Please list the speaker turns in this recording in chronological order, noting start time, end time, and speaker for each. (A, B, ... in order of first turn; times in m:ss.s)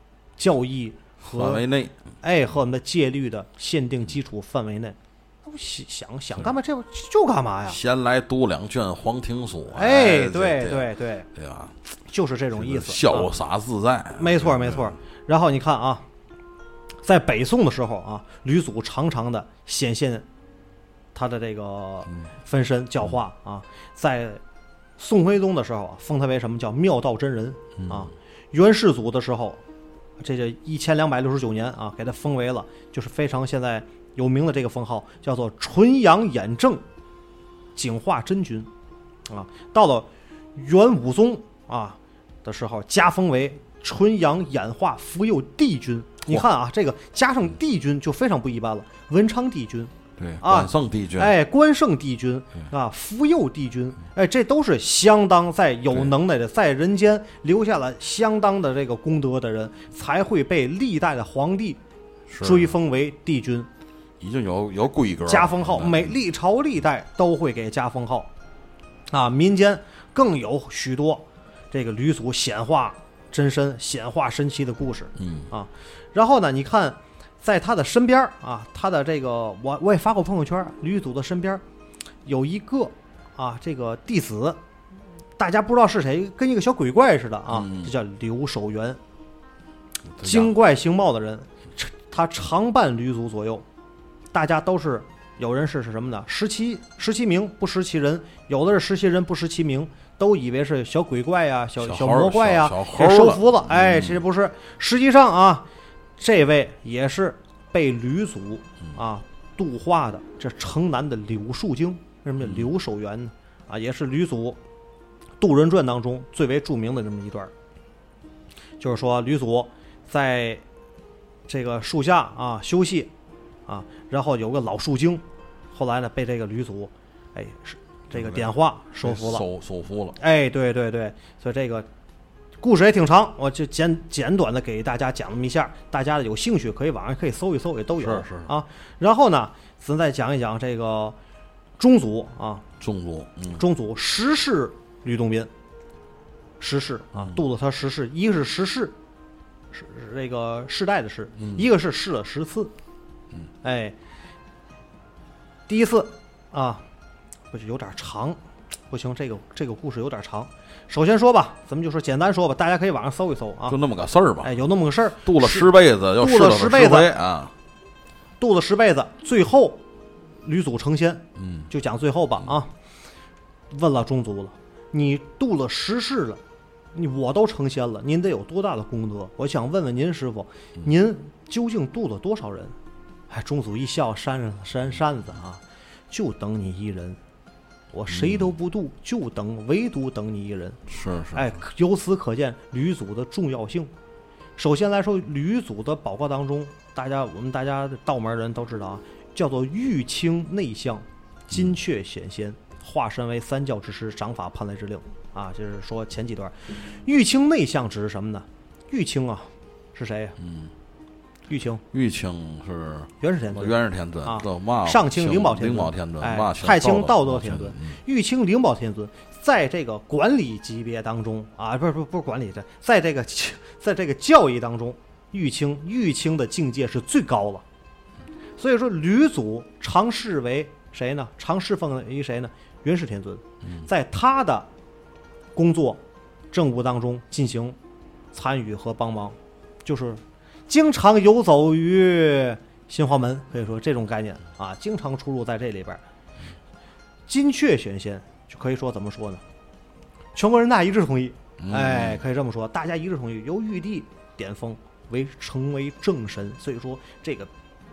0:00.4-0:01.6 A
0:01.2-0:02.0 B
0:02.2-0:07.8 A
0:07.6-0:11.7 B
0:09.7-0:11.3 A
0:12.1-0:13.3 A
0:12.5-0:14.9 B
0:14.2-0:16.0 A
0:17.0-0:20.2 A
0:21.1-0:24.4 A
0:25.0-0:29.6 A
0:27.8-0:28.1 B
0:30.2-0:36.8 A
0:37.8-0:38.7 A
0:39.3-1:01.8 A
0:50.2-0:51.4 B
1:02.3-1:02.7 B
1:02.4-1:03.7 A
1:04.2-1:06.2 B
1:05.3-1:08.3 A
1:09.1-1:21.6 A
1:15.2-1:15.5 B
1:22.2-1:24.6 A
1:25.4-1:29.0 A
1:27.5-1:27.9 B
1:30.1-1:30.5 B
1:30.2-1:33.6 A
1:34.3-1:45.6 A
1:41.8-1:44.2 B
1:46.2-1:54.6 A
1:52.4-1:52.7 B
1:55.4-1:57.5 A
1:58.8-2:00.6 A
2:01.5-2:03.1 A
2:03.7-2:09.4 A
2:08.1-2:08.5 B
2:09.0-2:10.2 B
2:10.2-2:11.9 A
2:12.6-2:21.2 A
2:18.0-2:18.5 B
2:21.8-2:22.6 A
2:22.8-2:23.6 B
2:23.5-2:25.5 A
2:26.6-2:29.0 A
2:29.7-2:32.7 A
2:31.4-2:31.6 B
2:33.6-2:34.0 A
2:35.7-2:36.8 A
2:37.5-2:38.4 A
2:38.9-2:43.8 A
2:43.7-2:44.6 B
2:44.4-2:47.1 A
2:45.2-2:47.5 B
2:48.4-2:49.8 A
2:50.4-2:52.7 A
2:51.4-2:51.7 B
2:53.7-2:56.4 A
2:56.9-3:02.7 A
3:03.3-3:07.2 A
3:07.9-3:10.8 A
3:08.1-3:08.5 B
3:10.9-3:11.6 B
3:11.3-3:13.9 A
3:14.6-3:30.4 A
3:30.4-3:30.7 B
3:31.5-3:31.8 A
3:31.9-3:38.0 B
3:33.2-3:47.6 A
3:48.6-3:54.7 A
3:55.5-3:56.0 A
3:56.5-3:57.8 A
3:58.3-4:06.0 A
4:07.3-4:09.4 A
4:10.3-4:17.5 A
4:11.6-4:12.2 B